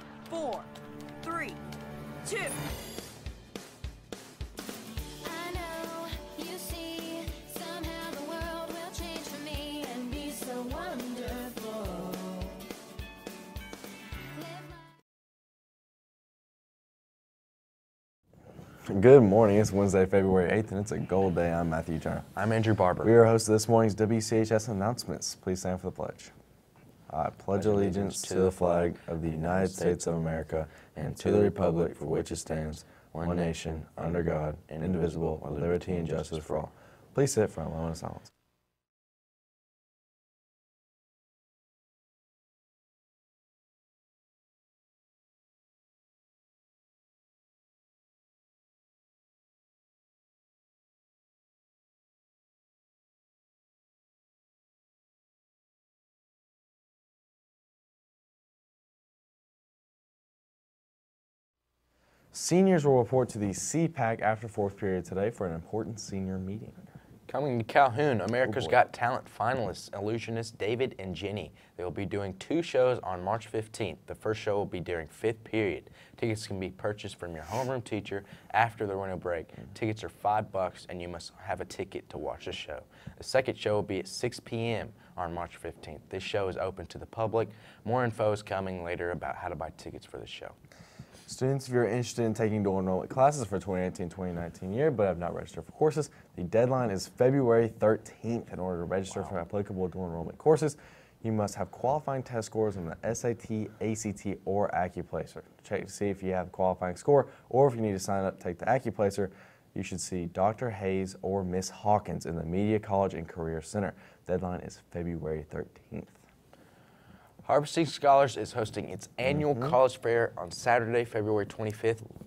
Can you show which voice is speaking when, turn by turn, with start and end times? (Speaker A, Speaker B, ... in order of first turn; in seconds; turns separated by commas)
Speaker A: 0.3-1.6, Speaker A: 2.2-2.6, Speaker A: 5.2-12.5, Speaker A: 14.3-14.8, Speaker B: 18.8-22.3, Speaker C: 22.3-23.1, Speaker B: 23.0-26.3, Speaker B: 27.1-38.3, Speaker C: 27.5-30.4, Speaker C: 30.9-32.5, Speaker C: 33.1-36.7, Speaker B: 62.3-66.8, Speaker C: 67.3-90.5, Speaker B: 68.4-68.8, Speaker B: 91.3-116.2, Speaker C: 99.1-99.4, Speaker C: 117.4-122.1, Speaker B: 119.4-119.7